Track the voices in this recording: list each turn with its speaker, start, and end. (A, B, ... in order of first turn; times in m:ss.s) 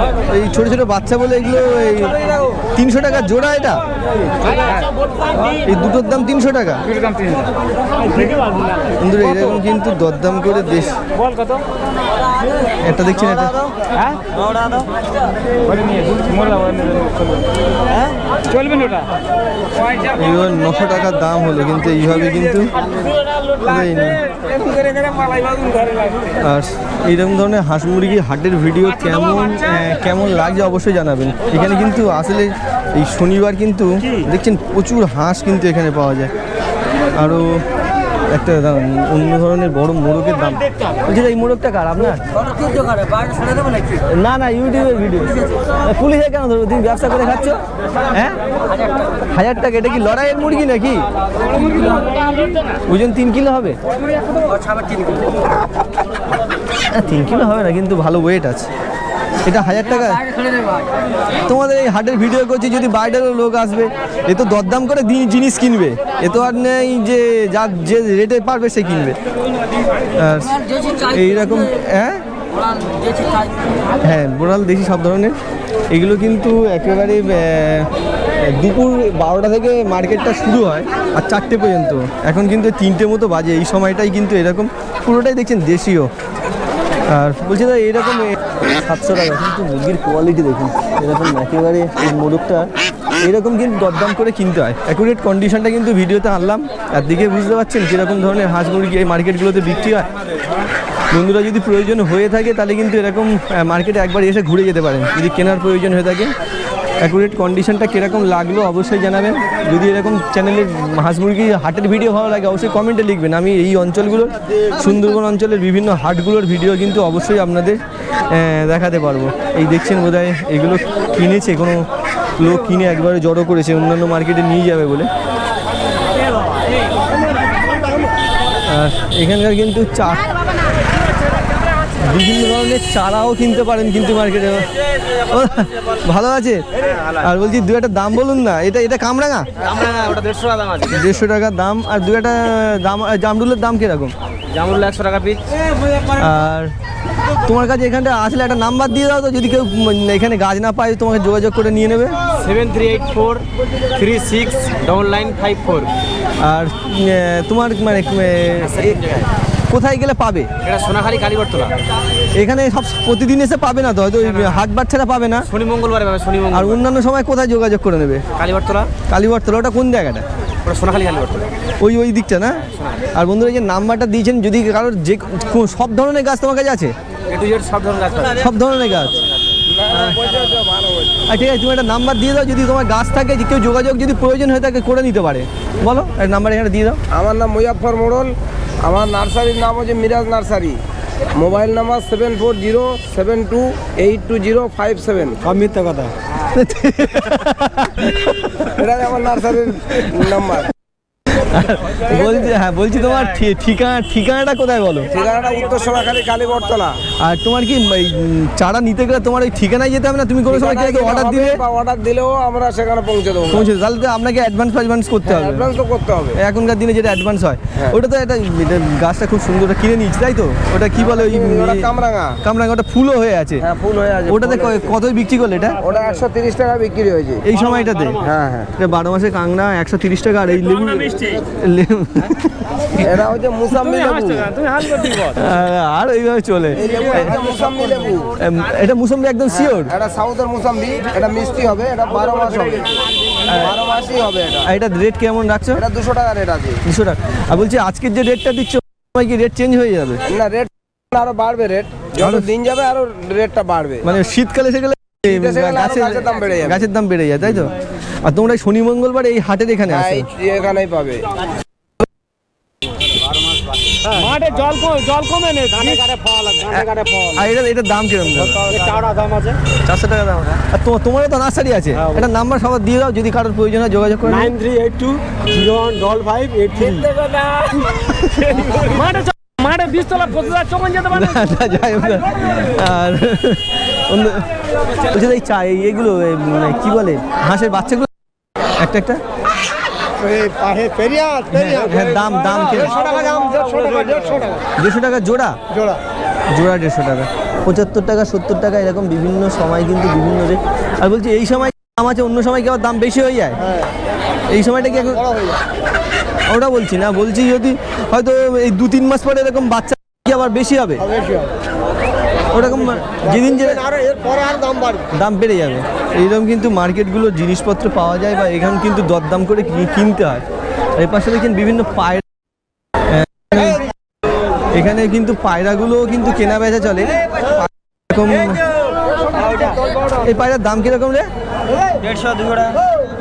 0:00.3-0:02.2 A
0:02.7-0:03.8 A
0:05.6-0:06.9 A
0:09.0-0:11.0 A
0:12.8-0:13.6 A
0:15.7-0:17.0 B
0:18.5-0:19.1 B
0:20.0-0:22.7 A
0:23.6-0:24.2 A
0:26.3-0:36.3 A
0:37.2-0:37.6 A
0:38.3-0:42.2 A
0:44.0-0:47.6 A
0:48.1-0:48.4 A
0:49.3-0:51.0 A
0:52.9-0:53.8 A
0:56.9-0:58.7 A
0:59.4-1:00.2 A
1:01.4-1:09.2 A
1:10.2-1:12.2 A
1:14.0-1:15.4 A
1:15.9-1:26.1 A
1:27.1-1:40.1 A
1:41.1-1:46.3 A
1:47.0-2:01.8 A
2:02.4-2:05.1 A
2:08.6-2:10.3 A
2:11.9-2:14.7 A
2:15.2-2:19.5 A
2:19.6-2:21.1 B
2:20.8-2:24.1 A
2:24.5-2:25.4 B
2:26.1-2:26.7 A
2:27.4-2:32.2 A
2:32.4-2:35.9 B
2:36.4-2:40.5 A
2:38.8-2:39.2 B
2:40.6-2:41.8 B
2:42.3-2:45.5 A
2:44.3-2:44.6 B
2:45.5-2:46.8 B
2:46.5-2:48.2 A
2:48.4-2:48.9 B
2:49.1-2:50.2 A
2:50.6-2:51.5 B
2:51.8-2:52.6 A
2:53.1-2:56.9 A
2:57.3-2:58.4 B
2:58.3-2:59.2 A
2:59.7-3:01.2 C
2:59.9-3:00.2 A
3:01.3-3:07.0 A
3:07.1-3:10.8 C
3:11.3-3:15.4 C
3:15.5-3:16.1 B
3:16.5-3:18.8 A
3:18.8-3:20.7 C
3:19.8-3:20.2 A
3:21.4-3:25.1 A
3:25.1-3:27.0 C
3:27.2-3:31.6 A
3:30.5-3:33.7 C
3:33.5-3:35.7 A
3:35.2-3:36.4 C
3:36.3-3:41.9 A
3:41.0-3:42.4 C
3:42.4-3:43.6 A
3:43.6-3:44.9 C
3:44.3-3:45.8 A
3:45.8-3:47.4 C
3:47.4-3:48.2 A
3:48.2-3:48.7 C
3:48.8-3:53.0 A
3:53.0-3:54.6 C
3:54.6-3:55.0 B
3:55.0-3:57.3 A
3:56.7-3:58.3 C
3:58.4-3:59.9 A
3:59.5-4:03.0 C
4:03.4-4:03.7 A
4:03.5-4:04.7 C
4:04.6-4:05.8 A
4:05.7-4:06.8 C
4:06.8-4:10.2 A
4:10.3-4:14.0 C
4:12.2-4:12.5 A
4:14.0-4:20.3 A
4:15.2-4:16.9 C
4:19.9-4:21.3 C
4:24.1-4:27.3 B
4:26.6-4:28.7 A
4:28.6-4:29.6 B
4:29.8-4:34.6 A
4:34.4-4:37.8 B
4:37.9-4:38.8 A
4:38.7-4:41.0 B
4:41.0-4:44.5 A
4:45.0-4:48.1 A
4:48.8-4:49.2 A
4:50.6-4:51.2 B
4:51.4-4:53.0 A
4:53.0-4:54.2 B
4:54.8-4:55.6 A
4:56.5-5:03.7 A
5:04.5-5:05.3 A
5:06.5-5:11.1 A
5:12.5-5:14.1 A
5:15.0-5:20.4 A
5:21.0-5:22.3 A
5:23.0-5:23.8 A
5:24.7-5:28.6 A
5:30.1-5:31.3 A
5:32.0-5:32.8 B